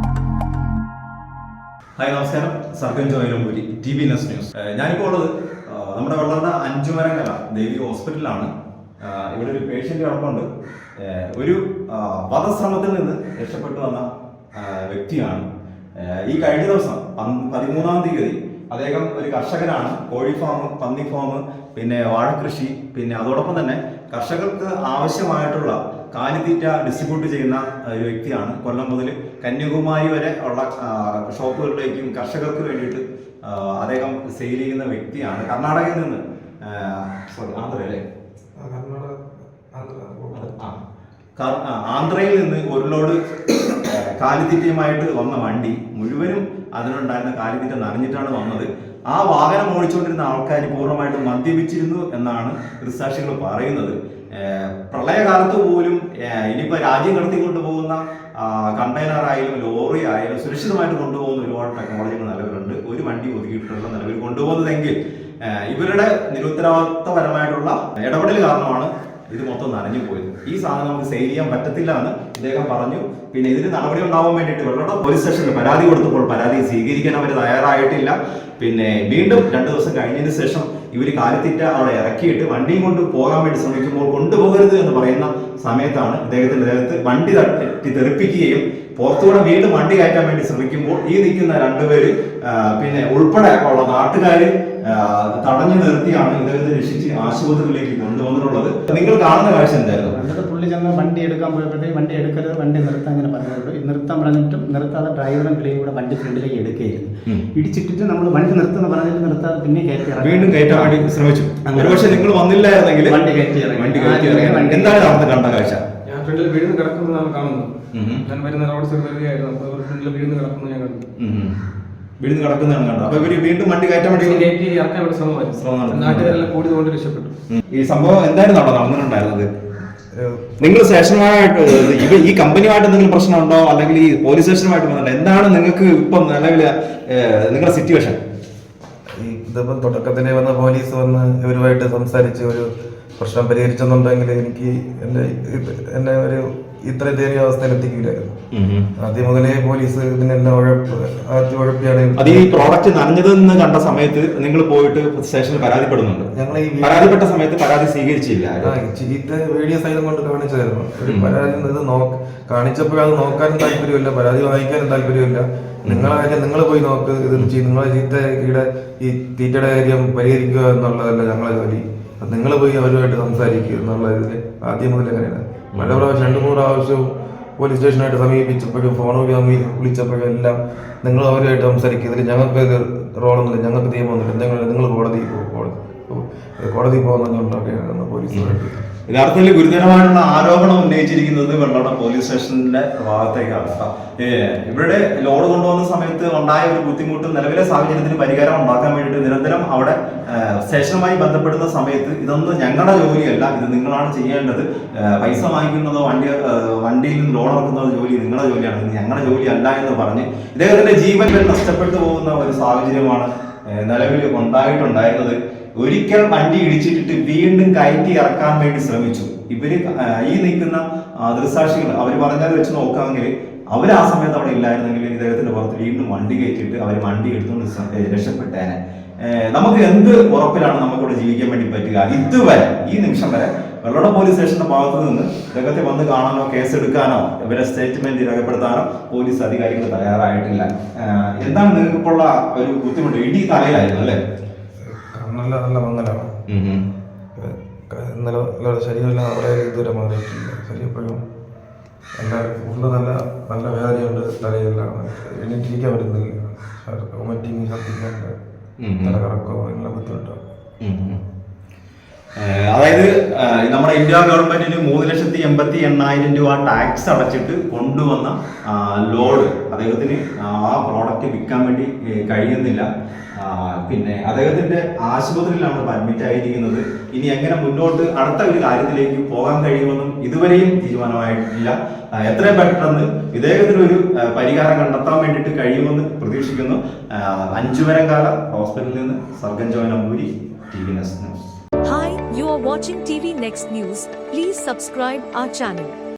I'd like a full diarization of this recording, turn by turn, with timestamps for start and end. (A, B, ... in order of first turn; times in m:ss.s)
0:02.0-0:38.0 A
0:38.6-0:39.1 B
0:39.7-0:40.7 B
0:41.4-1:40.2 A
1:38.9-1:51.0 C
1:50.2-1:55.8 A
1:51.7-1:55.4 C
1:56.1-2:01.0 D
1:57.9-1:58.3 A
2:01.2-2:01.5 A
2:02.2-2:04.5 A
2:04.1-2:07.3 D
2:05.6-2:06.5 A
2:07.5-2:09.5 A
2:10.2-2:10.7 B
2:10.6-2:18.2 A
2:19.2-2:28.3 B
2:28.5-2:28.9 A
2:29.0-2:32.7 B
2:32.2-2:36.3 A
2:36.4-2:37.2 B
2:36.8-2:38.7 A
2:38.6-3:08.9 B
2:41.1-2:41.4 A
2:45.8-2:46.1 A
2:55.7-2:56.1 A
3:08.3-4:04.2 A
4:04.9-4:06.3 B
4:06.5-4:06.8 A
4:07.4-4:11.2 B
4:12.2-4:18.3 B
4:18.8-4:19.2 A
4:19.0-4:20.4 B
4:20.8-4:21.2 A
4:22.4-4:51.4 A
4:51.8-4:56.0 E